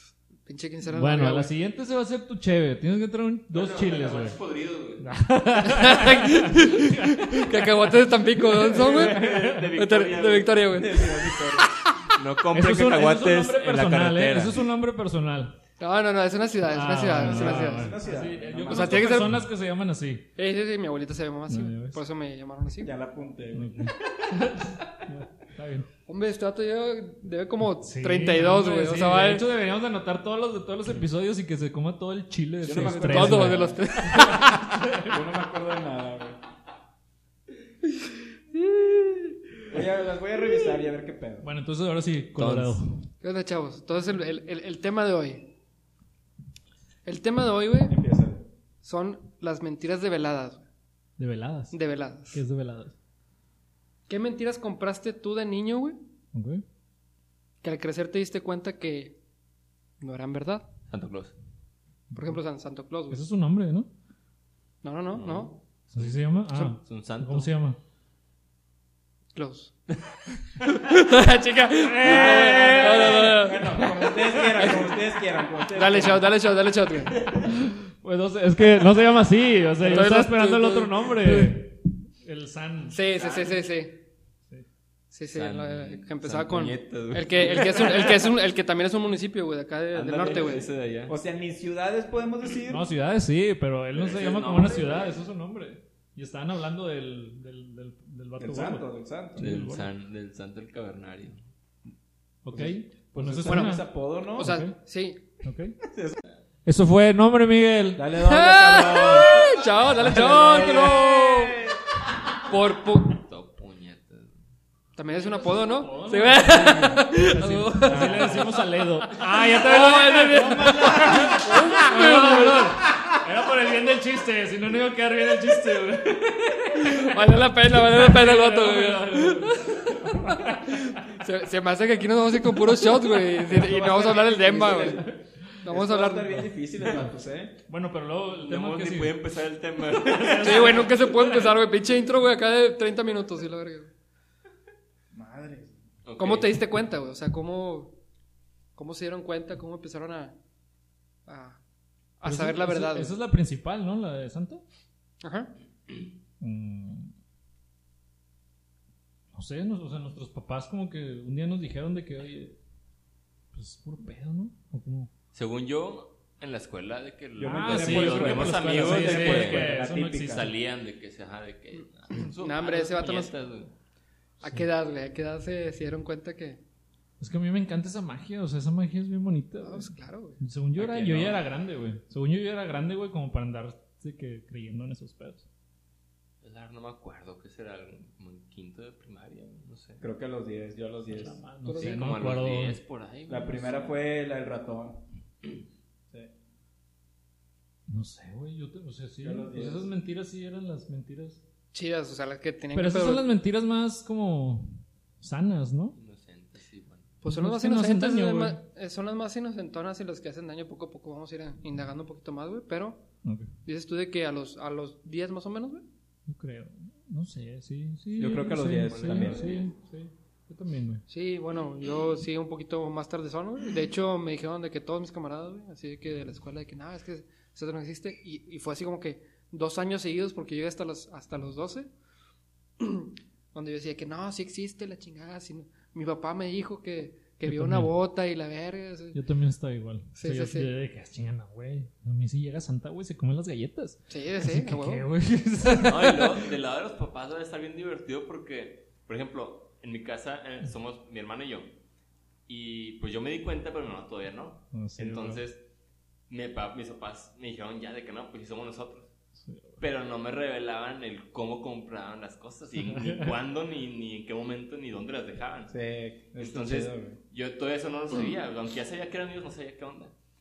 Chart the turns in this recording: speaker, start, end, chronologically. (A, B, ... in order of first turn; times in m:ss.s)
0:00.5-0:01.5 A
0:00.9-0:04.4 B
0:03.5-0:05.0 C
0:05.0-0:09.7 B
0:05.6-0:12.2 A
0:08.7-0:10.9 C
0:08.9-0:09.3 D
0:10.7-0:11.7 D
0:12.2-0:14.6 C
0:12.5-0:15.6 B
0:15.8-0:18.0 A
0:16.7-0:20.3 B
0:17.2-0:19.3 D
0:18.7-0:19.4 A
0:20.4-0:22.9 A
0:21.5-0:22.0 B
0:22.8-0:23.9 D
0:23.5-0:25.9 B
0:26.1-0:29.5 A
0:27.8-0:35.2 B
0:32.6-0:36.4 D
0:32.8-0:34.6 A
0:39.7-0:41.5 D
0:41.4-0:43.1 B
0:42.4-0:42.8 C
0:43.2-0:45.4 A
0:47.0-0:48.0 A
0:47.9-0:48.4 D
0:48.8-0:50.7 A
0:51.2-0:51.8 B
0:51.7-0:52.4 A
0:52.3-0:53.0 B
0:54.1-0:56.0 A
0:56.3-0:56.6 B
0:57.6-0:59.2 A
1:00.0-1:00.7 A
1:00.9-1:01.4 C
1:02.1-1:03.2 A
1:03.1-1:03.9 B
1:04.8-1:05.5 A
1:05.1-1:07.5 C
1:05.9-1:07.8 B
1:09.4-1:09.7 A
1:10.6-1:14.9 A
1:11.9-1:13.5 B
1:12.0-1:16.3 D
1:15.7-1:17.2 A
1:17.4-1:23.0 B
1:19.8-1:21.6 A
1:22.9-1:24.0 A
1:23.2-1:23.6 C
1:25.1-1:30.7 A
1:25.3-1:28.2 C
1:29.9-1:32.9 D
1:30.2-1:31.1 C
1:32.7-1:38.8 B
1:33.9-1:35.2 C
1:38.4-1:39.4 D
1:39.4-1:39.9 B
1:39.4-1:41.4 C
1:42.4-1:44.8 B
1:42.5-1:44.6 D
1:43.5-1:43.8 A
1:44.4-1:45.2 A
1:45.4-1:45.8 B
1:45.8-1:46.2 D
1:46.7-1:48.1 B
1:48.0-1:51.8 D
1:48.2-1:51.6 A
1:50.1-1:51.2 B
1:52.5-1:53.2 A
1:53.2-1:54.4 C
1:55.0-2:02.8 A
1:55.3-2:11.0 B
1:56.3-1:58.5 D
2:00.4-2:01.4 D
2:06.7-2:15.1 A
2:12.5-2:15.2 B
2:13.9-2:17.6 D
2:15.6-2:16.4 A
2:16.3-2:17.1 B
2:17.7-2:19.2 B
2:18.4-2:20.9 C
2:19.9-2:21.6 B
2:20.4-2:23.9 A
2:25.1-2:25.8 D
2:26.0-2:26.6 C
2:26.2-2:27.9 A
2:28.8-2:30.4 A
2:31.3-2:31.6 A
2:32.2-2:33.1 A
2:32.2-2:34.6 B
2:35.2-2:35.5 A
2:36.4-2:37.1 B
2:39.3-2:42.6 B
2:43.5-2:45.1 B
2:45.3-2:53.7 C
2:47.4-2:50.5 D
2:47.4-2:50.5 B
2:51.7-2:53.3 A
2:54.4-2:56.6 A
2:57.2-3:05.5 B
2:59.6-3:00.4 A
3:00.8-3:01.4 C
3:06.4-3:10.0 C
3:10.0-3:11.4 D
3:11.1-3:12.8 B
3:11.6-3:12.0 A
3:11.8-3:14.0 C
3:13.3-3:15.0 D
3:17.9-3:21.4 B
3:19.2-3:19.9 D
3:21.7-3:23.3 A
3:22.7-3:26.0 B
3:26.0-3:27.1 C
3:27.2-3:33.0 A
3:27.3-3:28.6 B
3:33.6-3:35.8 A
3:36.3-3:41.0 B
3:38.2-3:39.5 D
3:38.8-3:39.7 C
3:41.1-3:51.9 A
3:52.8-3:59.2 A
3:57.4-3:57.9 B
3:59.1-4:06.5 B
4:00.2-4:00.7 A
4:04.1-4:05.1 A
4:05.8-4:11.7 C
4:12.5-4:15.6 C
4:14.7-4:15.4 B
4:16.3-4:19.1 C
4:19.4-4:19.8 B
4:19.8-4:25.8 C
4:22.8-4:23.3 B
4:25.7-4:27.2 D
4:26.4-4:30.1 C